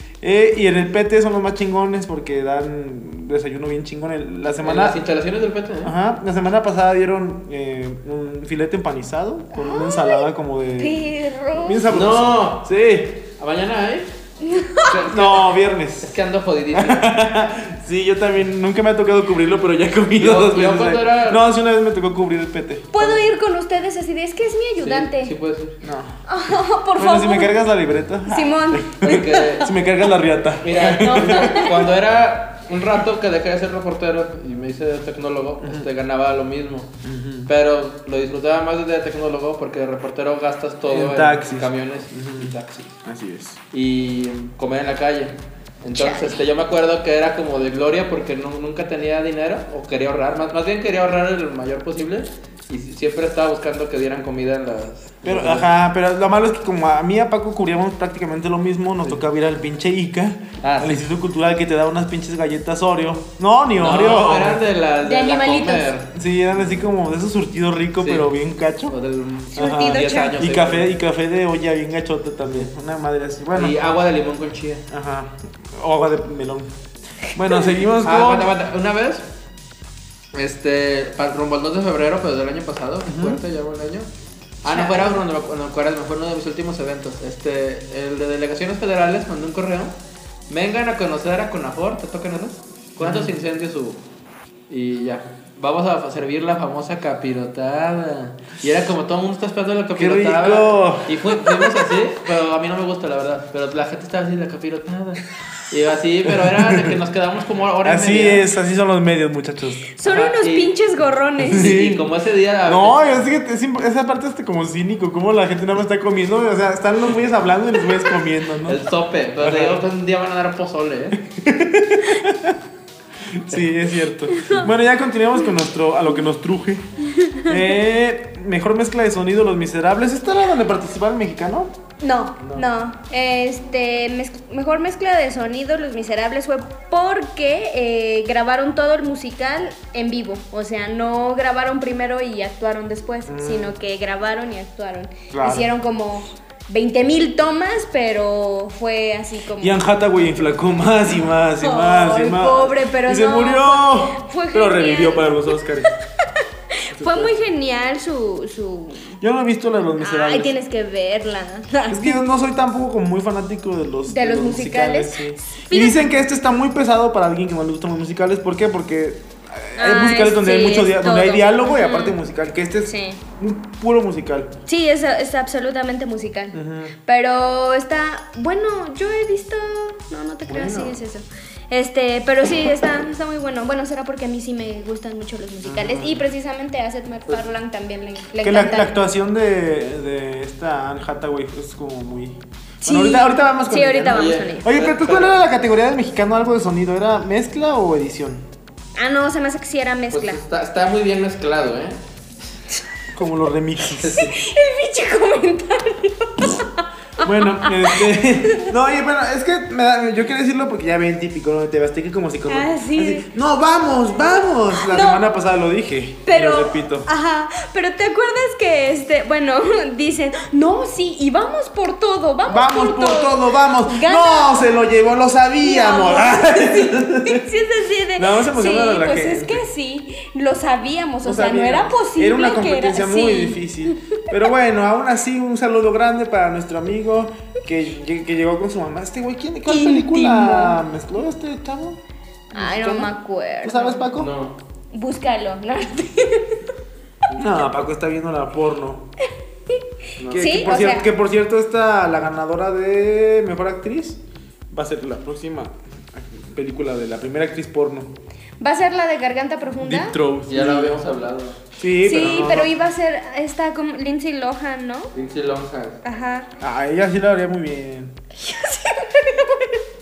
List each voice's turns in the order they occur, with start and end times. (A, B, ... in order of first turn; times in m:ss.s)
0:00.2-0:05.0 A
0:04.6-0:05.9 B
0:05.8-0:13.2 A
0:09.5-0:11.8 C
0:11.9-0:12.7 B
0:13.4-0:14.1 B
0:14.4-0:14.9 C
0:14.8-0:15.5 B
0:15.0-0:16.2 A
0:16.0-0:17.1 B
0:16.7-0:22.9 A
0:20.2-0:21.4 B
0:22.9-0:25.3 C
0:24.8-0:25.8 B
0:25.8-0:26.2 A
0:26.3-0:27.5 C
0:26.9-0:31.7 A
0:28.3-0:29.7 C
0:29.0-0:29.7 B
0:30.6-0:36.9 B
0:30.9-0:31.9 C
0:35.6-0:35.9 A
0:37.0-0:37.5 A
0:37.5-0:42.9 B
0:40.9-0:43.6 A
0:43.7-0:55.7 B
0:45.9-0:46.4 C
0:55.2-1:04.6 A
1:00.6-1:01.0 B
1:03.8-1:06.9 B
1:05.0-1:05.9 C
1:06.1-1:09.0 A
1:08.0-1:08.3 B
1:08.9-1:10.9 B
1:09.5-1:10.4 C
1:09.5-1:13.8 A
1:13.5-1:14.8 B
1:14.9-1:16.7 A
1:17.3-1:18.5 A
1:18.0-1:19.2 B
1:20.3-1:24.1 B
1:23.0-1:23.4 A
1:24.6-1:29.9 B
1:24.6-1:25.2 C
1:30.5-1:34.0 B
1:33.0-1:33.3 A
1:34.7-1:48.5 B
1:39.9-1:41.8 A
1:46.3-1:47.0 A
1:47.8-1:49.8 A
1:50.0-1:51.8 C
1:50.0-1:50.7 B
1:51.4-1:52.0 A
1:51.5-1:53.2 B
1:52.6-1:58.8 A
1:58.6-2:01.2 B
1:59.4-1:59.8 A
2:01.3-2:02.6 A
2:03.3-2:06.9 A
2:04.3-2:04.7 C
2:07.2-2:07.6 C
2:07.4-2:11.7 A
2:12.0-2:29.8 C
2:23.3-2:23.7 A
2:25.3-2:25.7 A
2:29.6-2:35.9 A
2:31.6-2:35.6 C
2:36.8-2:39.2 C
2:36.9-2:37.3 A
2:39.2-2:40.5 A
2:40.0-2:42.2 C
2:41.9-2:54.5 A
2:44.1-2:46.1 C
2:49.7-2:52.2 C
2:52.8-2:53.2 C
2:54.7-3:08.9 C
2:56.5-2:56.9 A
3:00.5-3:00.9 A
3:05.6-3:06.2 A
3:08.4-3:18.4 A
3:12.8-3:14.6 C
3:14.1-3:15.4 B
3:19.0-3:20.4 C
3:20.1-3:22.0 B
3:23.1-3:24.3 A
3:24.0-3:24.3 B
3:24.1-3:28.7 C
3:27.2-3:37.1 A
3:32.5-3:33.3 C
3:34.7-3:35.2 C
3:36.2-3:44.7 C
3:42.4-3:47.4 A
3:45.6-3:54.2 C
3:48.2-3:49.6 A
3:51.2-4:02.0 A
3:59.6-4:00.8 C
4:02.5-4:04.0 C
4:02.5-4:04.3 A
4:04.2-4:04.6 B
4:04.9-4:06.6 C
4:07.4-4:09.1 A
4:10.2-4:10.5 B
4:10.3-4:18.1 A
4:10.3-4:11.1 C
4:18.6-4:20.1 C
4:19.8-4:21.0 A
4:20.5-4:21.6 B
4:21.8-4:22.7 A
4:22.0-4:25.1 C
4:25.1-4:26.0 B
4:26.0-4:26.5 C
4:26.6-4:28.1 A
4:28.4-4:29.8 C